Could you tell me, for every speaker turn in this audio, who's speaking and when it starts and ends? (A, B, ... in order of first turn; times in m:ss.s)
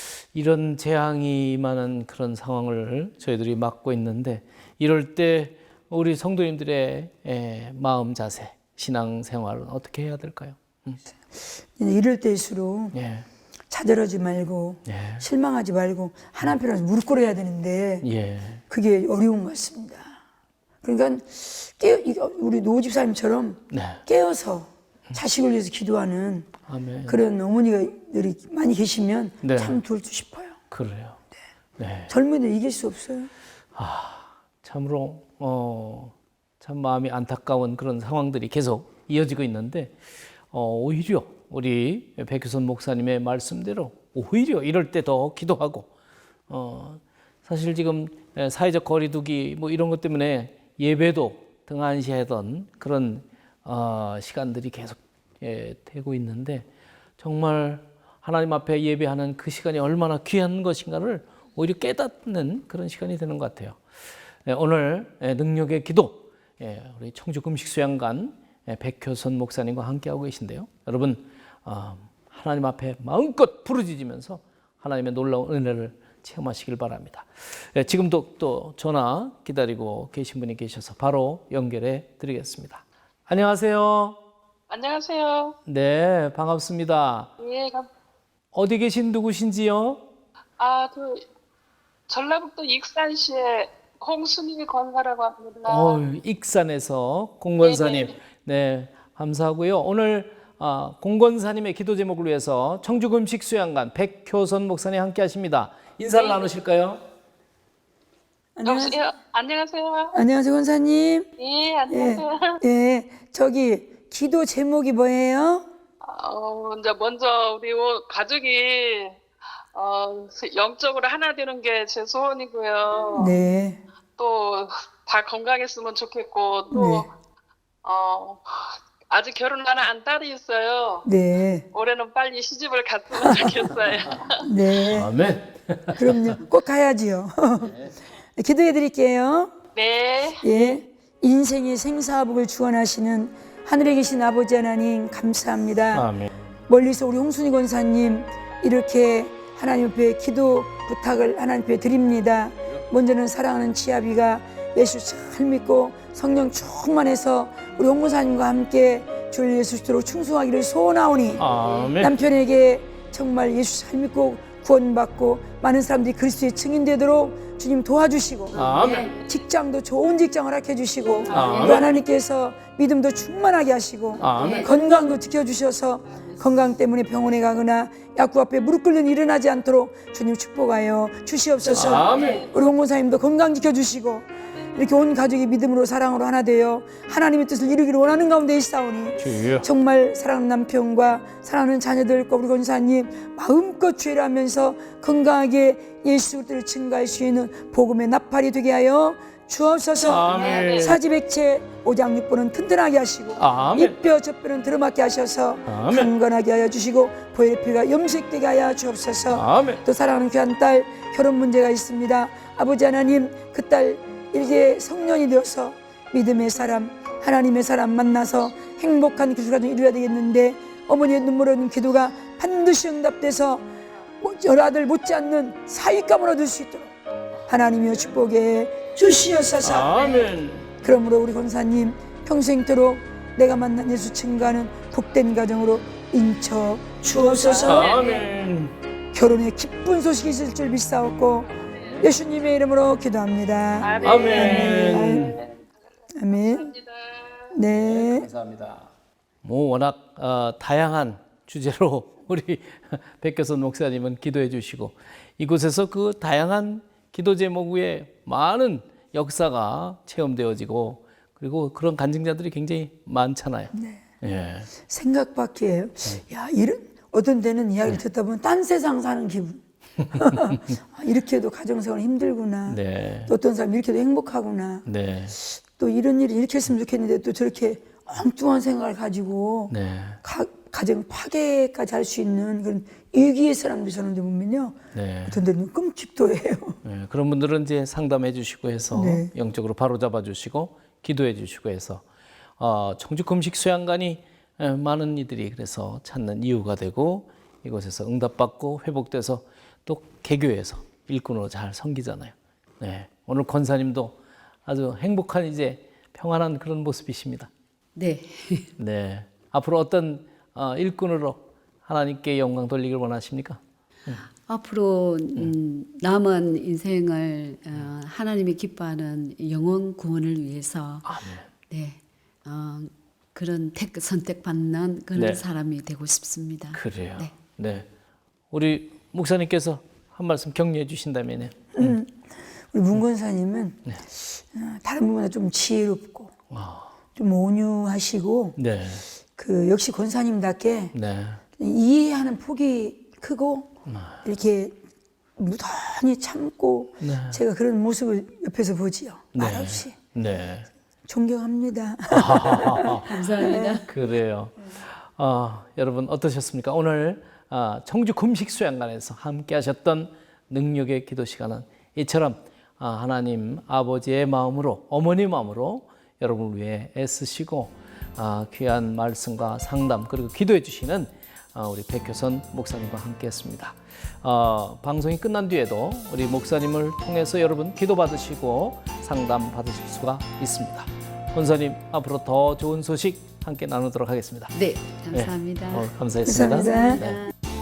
0:00.2-0:11.0 A
0:11.8-0:13.0 B
0:12.9-0:13.2 A
0:13.7-0:18.1 B
0:14.9-0:15.2 A
0:18.0-0:18.6 A
0:18.7-0:20.2 B
0:20.8-0:26.5 B
0:23.7-0:24.0 A
0:26.7-0:27.2 A
0:27.1-0:30.6 B
0:29.4-0:29.8 A
0:30.7-0:31.2 A
0:31.8-0:32.1 A
0:32.1-0:33.3 B
0:33.7-0:39.9 A
0:40.5-0:45.9 A
0:46.5-0:56.6 A
0:57.2-1:03.8 A
1:04.4-1:24.2 A
1:24.7-1:25.6 C
1:25.7-1:27.3 A
1:27.4-1:27.9 C
1:28.5-1:30.0 A
1:30.6-1:31.2 C
1:32.1-1:36.0 C
1:35.6-1:47.0 A
1:37.6-1:38.1 C
1:46.1-1:46.5 C
1:48.6-1:49.0 B
1:48.6-1:50.2 C
1:50.1-1:51.3 B
1:51.4-1:52.6 C
1:51.9-1:55.7 B
1:56.0-1:59.2 C
1:59.7-2:03.4 C
2:03.1-2:03.8 B
2:04.2-2:07.1 C
2:06.7-2:07.1 B
2:07.8-2:11.1 C
2:11.0-2:11.6 B
2:11.7-2:14.5 C
2:13.2-2:13.5 B
2:14.4-2:15.1 B
2:14.9-2:16.4 A
2:15.9-2:19.5 B
2:19.7-2:20.4 C
2:20.4-2:26.1 B
2:25.9-2:26.4 A
2:26.7-2:41.4 B
2:41.4-2:42.1 A
2:42.0-3:43.6 B
2:48.5-2:49.1 A
2:48.6-2:49.1 D
2:51.3-2:51.9 A
2:51.3-2:51.8 D
2:54.2-2:54.6 A
2:54.3-2:54.7 D
3:01.7-3:02.4 A
3:02.1-3:02.4 C
3:09.2-3:09.7 A
3:20.1-3:21.0 A
3:20.4-3:20.9 C
3:23.4-3:24.0 A
3:25.7-3:26.1 A
3:29.3-3:29.8 A
3:44.2-3:46.9 B
3:47.5-3:50.3 B
3:49.6-3:50.7 A
3:50.8-3:57.9 B
3:57.4-3:58.3 C
3:57.6-3:58.7 A
3:59.1-4:05.4 B
4:01.5-4:02.0 C
4:01.8-4:02.1 A
4:03.8-4:05.6 C
4:04.0-4:05.4 A
4:06.1-4:06.7 B
4:06.3-4:07.6 C
4:07.5-4:08.3 B
4:07.7-4:08.9 A
4:09.4-4:24.7 A
4:23.7-4:24.0 B
4:24.8-4:34.9 B
4:30.0-4:30.6 A
4:32.7-4:33.3 A
4:34.9-4:35.4 A
4:35.4-4:46.8 B
4:39.7-4:40.2 A
4:44.9-4:45.4 A
4:46.8-4:52.0 A
4:48.9-4:49.3 B
4:52.6-5:07.5 A
5:08.0-5:08.7 D
5:08.8-5:14.2 A
5:14.5-5:21.1 D
5:21.0-5:21.5 A
5:21.7-5:27.3 D
5:25.1-5:25.4 A
5:26.7-5:27.9 A
5:28.5-5:32.0 A
5:31.8-5:32.2 B
5:32.7-5:36.3 B
5:36.5-5:36.9 A
5:37.2-5:38.6 B
5:38.6-5:39.0 A
5:39.4-5:40.9 B
5:40.9-5:41.4 A
5:41.6-5:43.7 B
5:43.9-5:44.2 A
5:44.2-5:44.8 B
5:45.4-5:49.9 B
5:47.0-5:47.4 A
5:49.4-5:50.7 A
5:51.1-5:53.8 B
5:52.1-5:53.2 A
5:53.0-5:53.9 D
5:53.9-6:24.5 A
6:24.5-6:25.9 D
6:25.1-6:27.3 A
6:26.2-6:27.0 B